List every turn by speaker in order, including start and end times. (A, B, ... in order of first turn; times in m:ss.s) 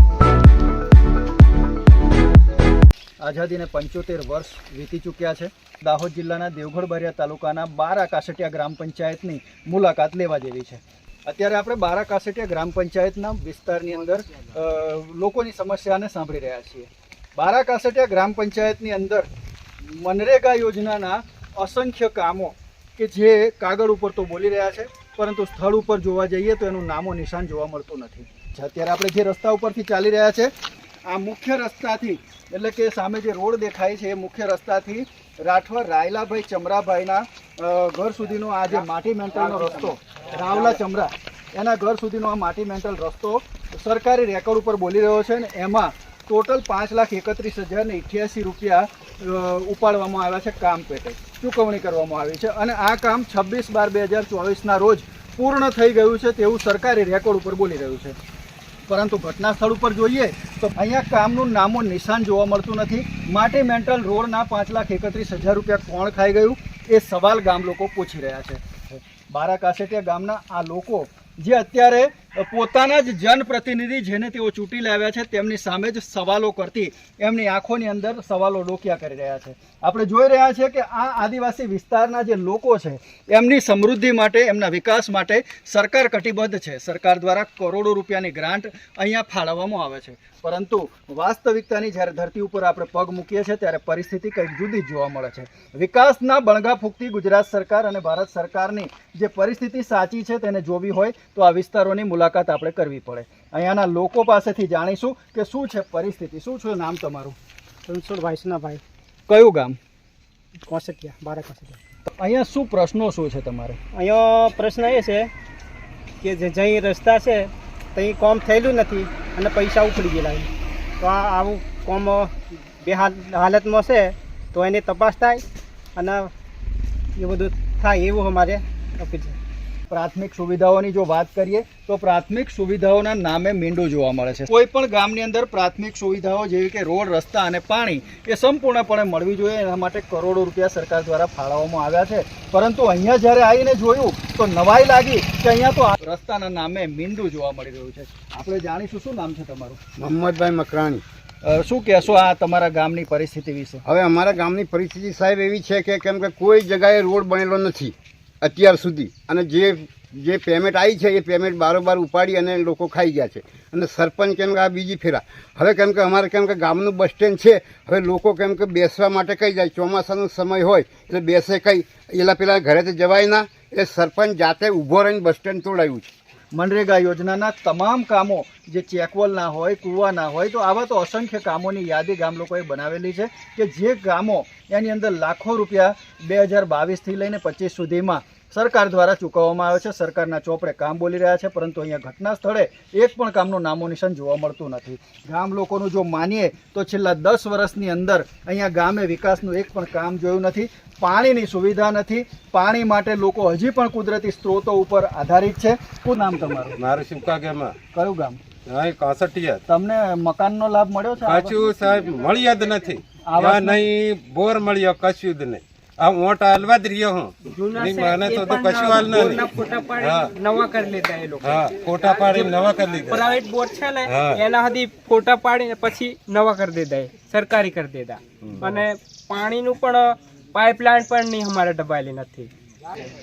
0:03.2-0:19.3 A
0:19.9-0:30.5 A
0:31.1-0:58.2 A
0:58.9-1:47.4 A
1:47.9-1:48.8 B
1:49.3-1:49.8 A
1:50.6-1:51.8 B
1:52.2-1:53.8 A
1:53.9-1:55.3 B
1:56.2-2:00.5 B
2:01.0-2:05.4 B
2:06.0-2:06.3 B
2:07.2-2:09.4 B
2:09.9-2:29.8 A
2:30.0-2:31.0 C
2:31.4-2:33.8 A
2:33.8-2:56.1 C
2:56.5-3:26.7 A
3:26.8-3:27.7 D
3:27.9-3:28.4 A
3:28.7-3:29.6 D
3:29.7-3:31.6 A
3:31.2-3:40.3 D
3:33.3-3:33.8 A
3:37.5-3:52.5 E
3:41.4-3:43.3 D
3:44.1-3:44.4 D